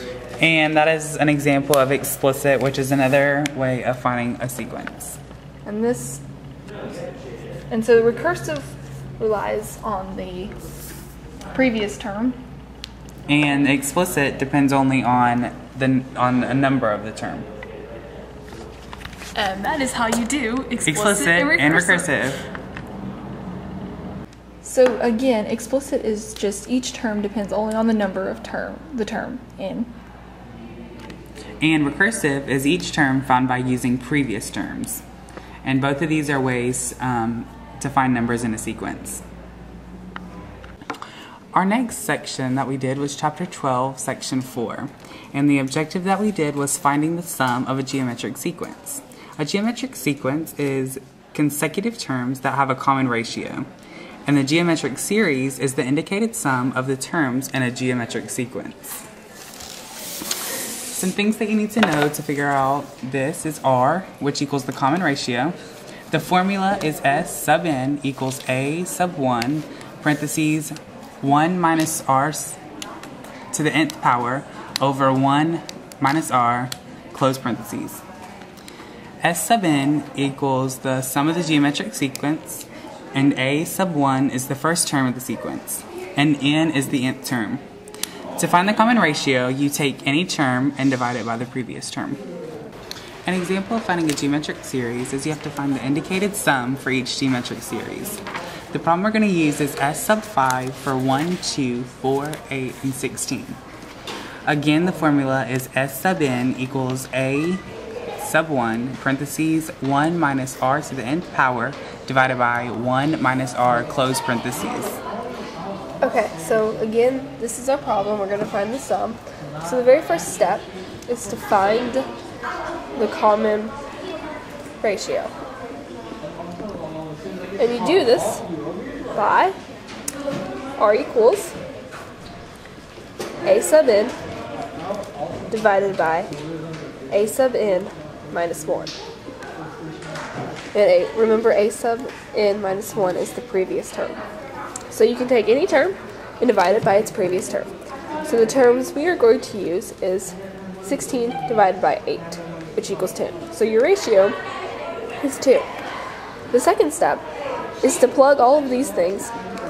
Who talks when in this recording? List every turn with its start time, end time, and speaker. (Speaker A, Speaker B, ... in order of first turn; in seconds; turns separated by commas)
Speaker A: 0.4-5.2, Speaker B: 5.7-6.2, Speaker B: 7.7-10.5, Speaker B: 11.5-12.4, Speaker A: 13.3-17.5, Speaker B: 19.3-22.1, Speaker A: 20.9-22.5, Speaker B: 24.6-29.9, Speaker A: 31.6-35.0, Speaker A: 35.6-39.2, Speaker A: 41.5-53.7, Speaker A: 54.3-59.0, Speaker A: 60.9-65.5, Speaker A: 66.1-72.6, Speaker A: 73.5-78.0, Speaker A: 79.2-87.6, Speaker A: 88.4-92.2, Speaker A: 93.2-103.6, Speaker A: 104.5-107.6, Speaker A: 108.2-115.0, Speaker C: 116.0-122.0, Speaker C: 123.0-123.7, Speaker C: 124.8-125.3, Speaker C: 127.6-128.4, Speaker C: 129.1-129.6, Speaker C: 130.8-131.5, Speaker C: 133.4-134.1, Speaker C: 135.5-136.3, Speaker C: 137.1-138.9, Speaker C: 140.7-144.2, Speaker C: 144.9-147.7, Speaker C: 148.2-154.4, Speaker C: 155.2-155.7, Speaker C: 156.5-157.2, Speaker C: 157.8-159.3